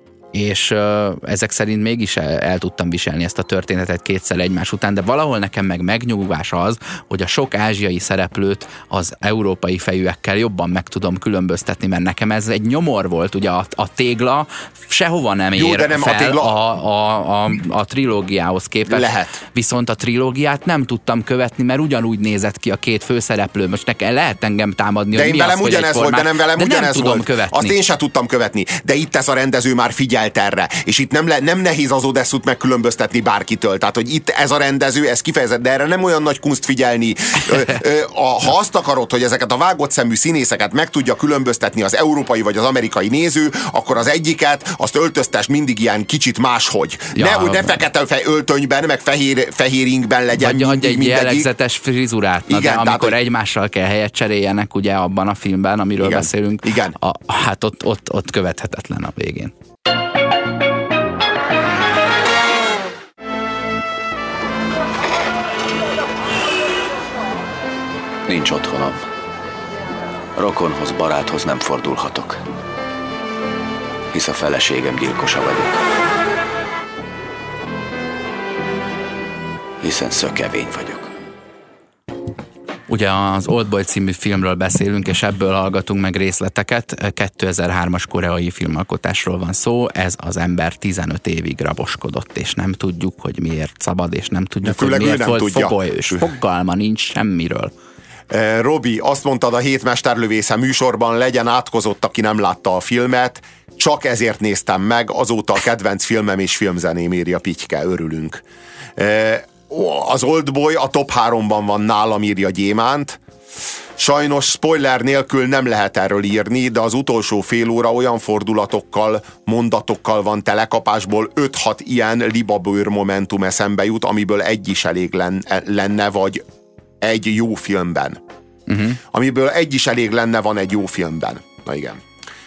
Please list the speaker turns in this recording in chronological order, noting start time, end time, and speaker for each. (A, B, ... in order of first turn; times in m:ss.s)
0:00.3-0:27.8 A
0:15.6-0:16.6 B
0:18.9-0:19.4 B
0:25.1-0:51.5 B
0:47.1-0:47.8 A
0:50.3-0:59.5 A
0:52.5-0:53.2 B
0:56.0-0:57.0 B
1:08.3-1:09.0 C
1:10.4-1:12.4 C
1:14.1-1:15.8 C
1:19.8-1:21.1 C
1:22.9-1:37.7 A
1:34.6-1:36.3 B
1:38.3-1:48.4 B
1:49.0-1:53.2 B
1:54.0-2:06.4 B
2:07.0-2:08.2 B
2:08.7-2:09.0 A
2:09.0-2:12.0 B